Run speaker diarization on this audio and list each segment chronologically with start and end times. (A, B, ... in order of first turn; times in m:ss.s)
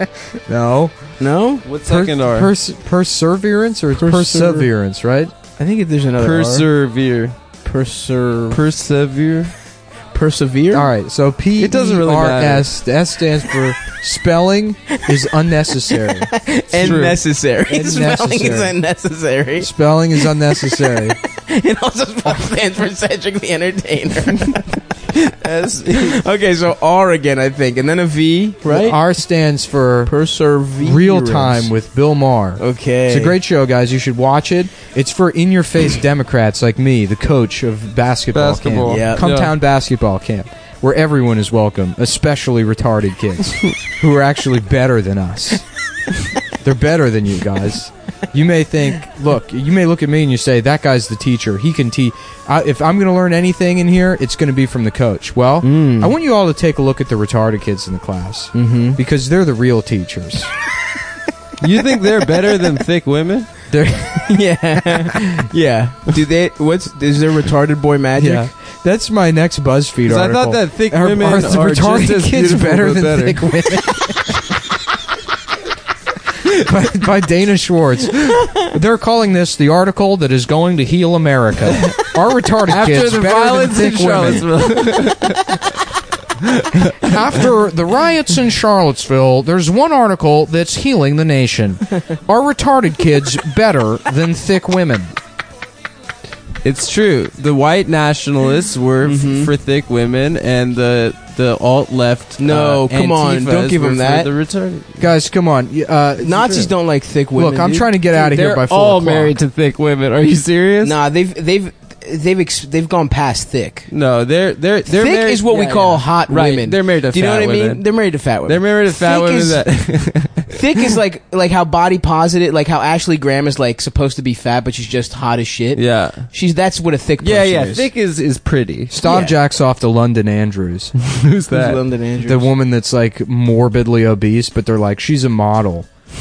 0:00.4-0:01.2 A
0:01.2-0:01.6 B
0:01.6-0:02.5 C
0:01.8-0:05.3 A
0:03.9-0:04.7 B
0:05.6-0:06.7 B
0:06.2-0:07.3 C
0:07.6-0:08.6 B
0:08.5-0:09.5 C
0:10.1-0:10.9 B
0:10.7-0:17.1 A
0:11.6-0:12.7 C
0:16.0-0:25.3 B
0:16.8-0:17.2 C
0:17.7-0:18.8 A
0:19.6-0:21.2 A
0:25.2-0:26.2 C
0:25.9-0:29.0 B
0:28.6-0:30.1 A
0:30.0-0:31.7 B
0:30.8-0:45.6 A
0:32.6-0:33.4 B
0:38.3-0:39.5 C
0:38.8-0:39.2 B
0:46.6-1:00.5 A
0:55.6-0:56.1 B
0:58.5-0:59.0 B
1:01.6-1:03.5 C
1:03.7-1:04.3 A
1:03.9-1:08.5 B
1:08.2-1:14.5 A
1:10.0-1:13.5 C
1:16.3-1:24.5 A
1:21.7-1:22.0 C
1:22.7-1:25.6 C
1:26.4-1:27.2 C
1:27.0-1:35.1 A
1:36.6-1:45.1 C
1:39.0-1:39.5 B
1:42.4-1:44.3 B
1:45.0-1:46.7 A
1:46.2-1:47.9 B
1:47.3-1:49.3 A
1:48.1-1:51.0 C
1:50.8-1:53.9 B
1:53.9-1:57.8 C
1:54.9-1:59.6 B
1:55.5-1:56.0 A
1:58.5-2:00.6 C
2:00.5-2:07.9 B
2:05.7-2:06.3 C
2:07.2-2:08.9 C
2:08.9-2:10.9 A
2:09.0-2:09.4 B
2:11.0-2:11.8 C
2:11.5-2:12.5 B
2:12.2-2:15.9 A